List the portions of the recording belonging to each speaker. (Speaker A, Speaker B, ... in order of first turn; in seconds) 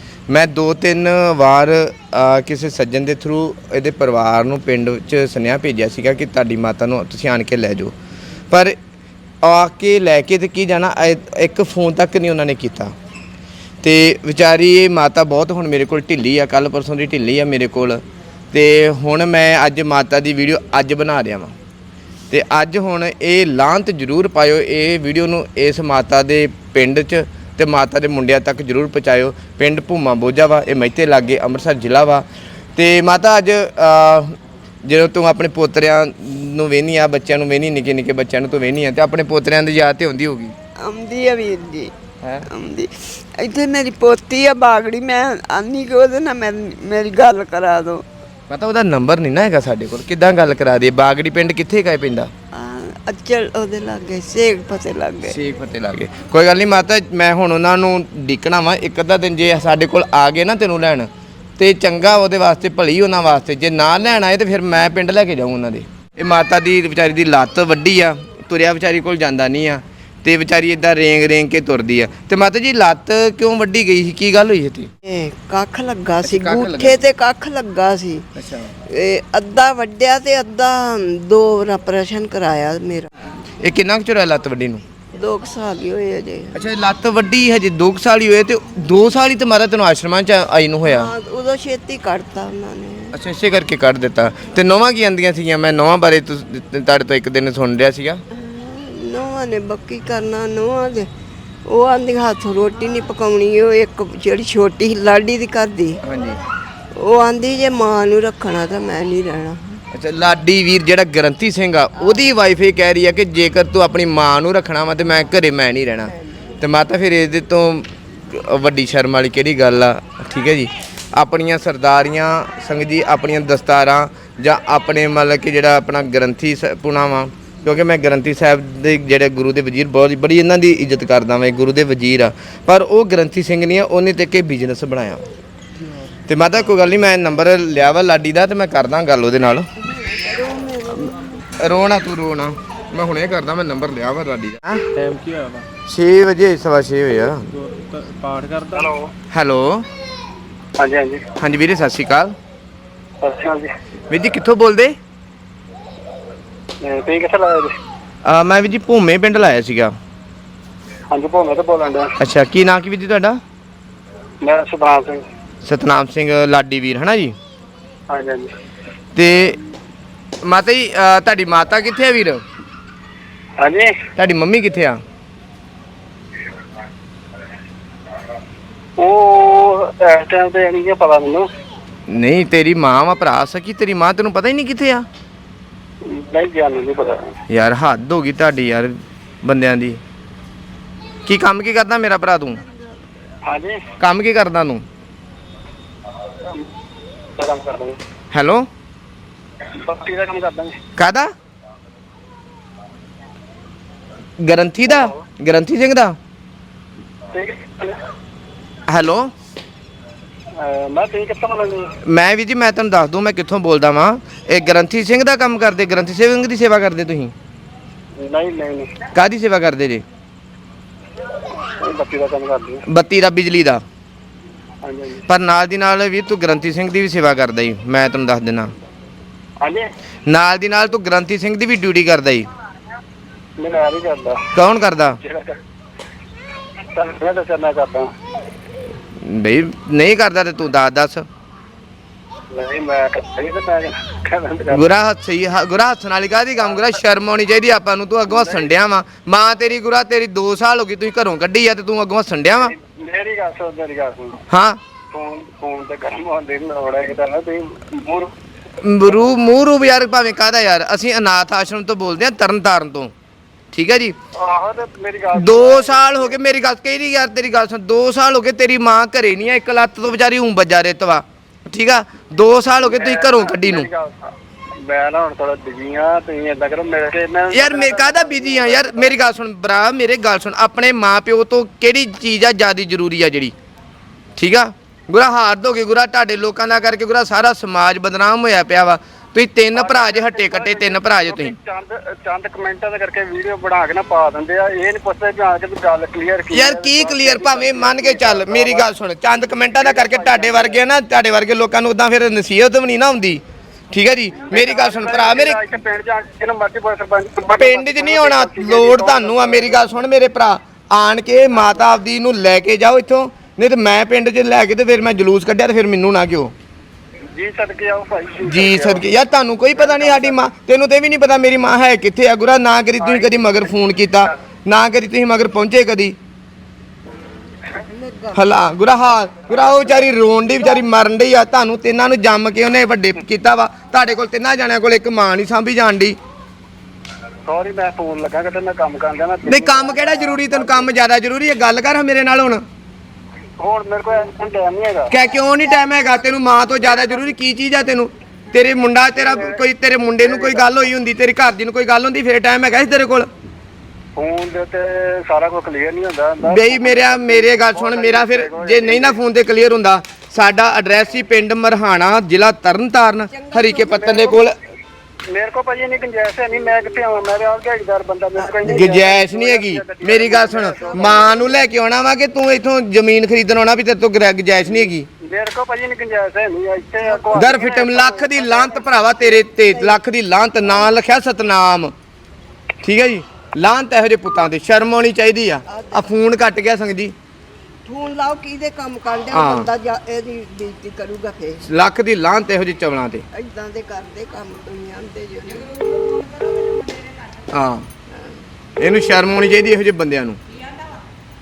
Speaker A: 0.3-7.9, 8.5-8.8, 9.4-12.9, 13.8-21.5, 22.3-40.5, 42.2-42.5, 48.5-52.3, 55.3-74.9, 76.2-77.0, 78.3-78.7, 83.6-84.8, 86.5-91.1, 93.1-98.2, 106.0-106.4, 109.9-135.2, 136.3-139.7, 141.6-144.9, 145.9-147.5, 149.3-149.9, 151.4-152.3, 154.1-155.0, 158.2-159.9, 162.2-163.4, 165.6-167.4, 169.2-169.6, 170.4-172.4, 174.2-175.0, 182.1-185.1, 187.5-190.0, 191.2-192.6, 194.0-194.8, 198.3-198.7, 201.0-201.3, 204.4-206.2, 208.9-209.3, 212.0-217.3, 219.1-220.1, 222.9-223.8, 225.3-228.7, 230.3-232.5, 234.5-235.2, 239.2-241.3, 244.7-252.8, 254.5-254.8, 258.8-263.1, 263.7-264.2, 265.3-273.9, 277.5-283.5, 284.4-291.6, 296.5-305.6, 307.5-316.5, 318.4-326.2, 328.3-336.2, 339.5-342.6, 345.1-353.3, 356.4-364.6, 368.6-375.1, 377.3-381.9, 382.8-387.1, 389.3-389.7, 391.6-393.2, 397.5-397.9, 398.8-400.4
Speaker B: 40.8-41.9, 42.5-48.0, 52.5-55.4, 75.0-78.3, 78.9-83.3, 85.1-86.6, 90.8-93.2, 98.3-101.1, 101.7-106.0, 106.9-109.8, 112.0-112.4, 139.8-141.3, 327.9-328.5, 363.3-364.2, 368.4-369.0, 371.0-371.6, 379.5-380.0, 385.7-386.1, 387.9-391.7, 393.3-395.8
Speaker C: 144.9-145.7, 147.6-148.9
Speaker D: 148.8-149.1, 150.8-151.2, 153.2-153.7, 156.8-157.8, 161.1-162.2, 164.4-165.2, 168.1-168.5, 173.6-173.9, 179.0-181.5, 186.0-187.3, 193.4-193.8, 197.4-198.0, 199.7-200.8, 207.3-208.0, 210.6-211.9, 218.2-219.0, 221.6-222.8, 224.8-225.2, 229.6-229.9, 233.6-234.4, 235.2-235.6, 236.9-238.1, 242.5-244.9, 248.3-248.7, 252.8-254.4, 255.1-258.3, 264.4-266.3, 272.8-274.3, 274.8-279.1, 289.7-298.9, 299.8-300.8, 304.4-309.9, 317.3-319.1, 319.8-320.4, 323.0-323.4, 337.5-340.9, 343.6-345.1, 349.2-349.6, 350.2-350.7, 354.2-359.2, 363.9-364.5, 365.3-371.4, 375.2-379.0